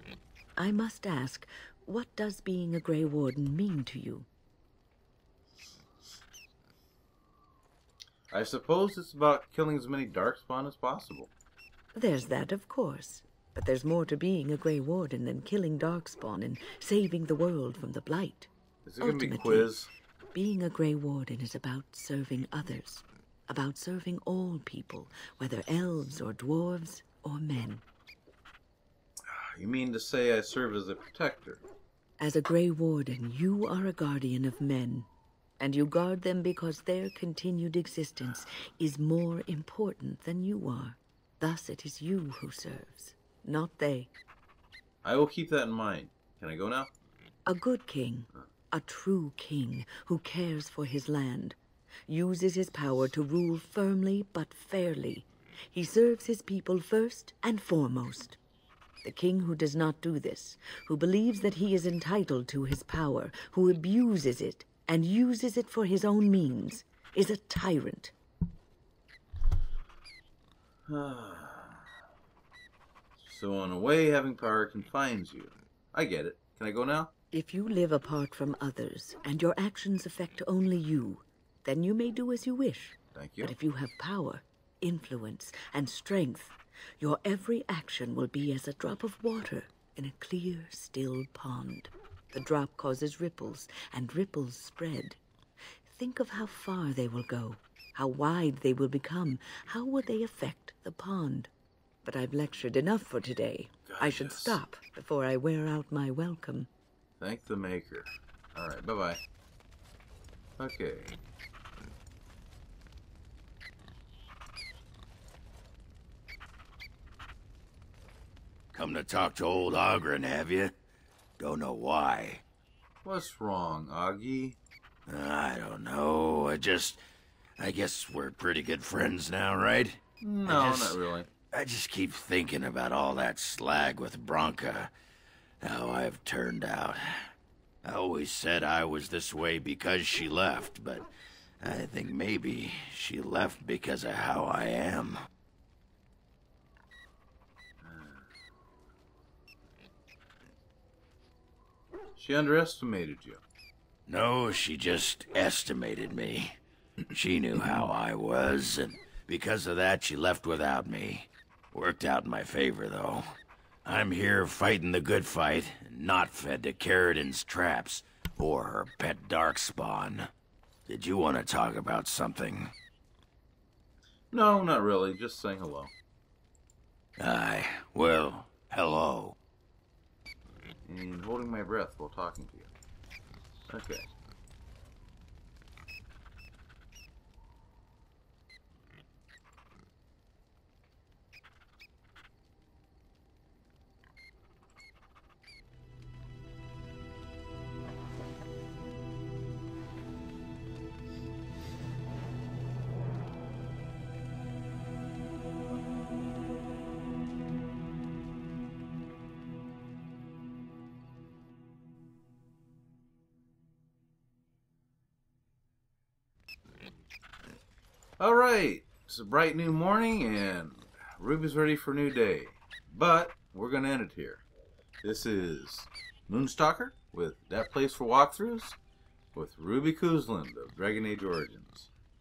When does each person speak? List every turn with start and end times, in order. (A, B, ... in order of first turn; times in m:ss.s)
0:00.6-0:04.3 A
0:08.3-0:11.3 B
0:11.9-0:18.5 A
0:18.8-0:19.9 B
0:19.0-0:27.8 A
0:29.3-0:31.6 B
0:32.2-0:35.1 A
0:35.6-0:44.1 A
0:45.0-0:46.9 B
0:47.5-0:51.6 A
0:52.1-0:58.4 A
0:59.0-1:08.1 A
1:10.9-1:11.8 B
1:13.2-1:17.1 B
1:17.3-1:35.2 A
1:23.1-1:23.5 B
1:35.9-1:41.5 A
1:42.0-1:46.7 A
1:43.8-1:44.6 B
1:47.2-1:49.2 B
1:50.6-1:51.2 B
1:58.7-2:00.7 C
2:01.4-2:02.4 C
2:03.0-2:04.6 B
2:05.1-2:07.0 C
2:07.6-2:11.0 C
2:10.2-2:11.3 B
2:11.5-2:14.9 C
2:15.6-2:17.3 C
2:17.8-2:21.1 C
2:21.6-2:25.2 C
2:27.8-2:28.3 B
2:32.2-2:33.4 B
2:34.1-2:36.5 C
2:37.1-2:50.3 C
2:50.9-2:52.7 C
2:54.3-2:55.9 B
2:57.2-2:59.4 C
3:00.9-3:02.7 B
3:03.7-3:04.1 B
3:38.2-3:44.4 B
3:45.0-3:48.8 B
3:49.3-3:51.9 B